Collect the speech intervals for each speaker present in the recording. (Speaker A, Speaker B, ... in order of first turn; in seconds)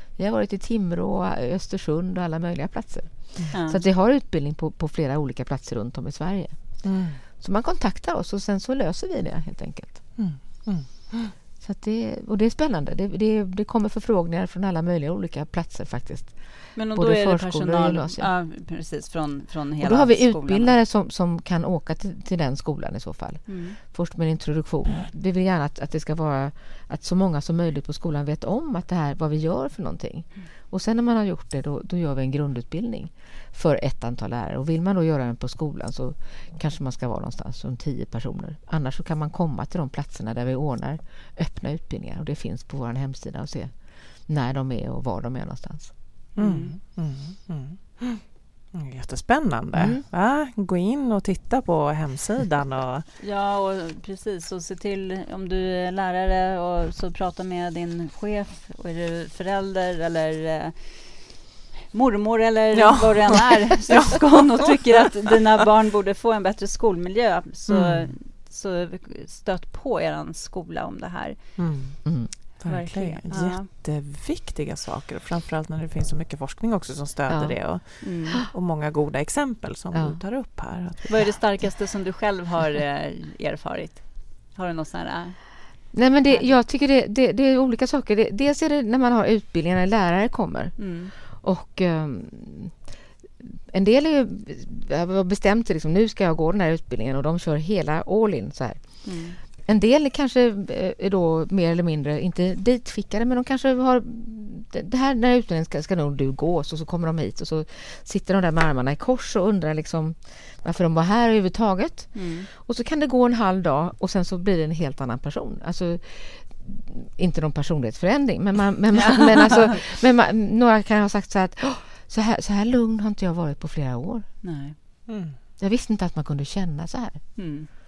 Speaker A: 0.2-6.8, 7.4-10.1, 11.6-18.3, 19.8-43.8, 44.3-45.9, 49.7-50.0, 72.0-72.3, 77.3-77.6, 85.9-92.8, 93.4-99.0, 99.6-124.3, 125.6-127.4
Speaker B: 3.5-3.8, 16.8-20.7, 23.5-23.8, 46.4-46.8, 53.2-61.3, 61.9-71.6, 72.7-73.7, 78.0-78.4, 81.1-86.5, 90.8-91.1, 99.0-99.4, 112.1-112.5, 118.9-119.8, 124.4-124.8, 127.4-127.7
Speaker C: 6.8-7.2, 10.2-11.3, 46.4-53.1, 62.8-63.8, 67.7-68.1, 71.6-81.6, 125.1-125.4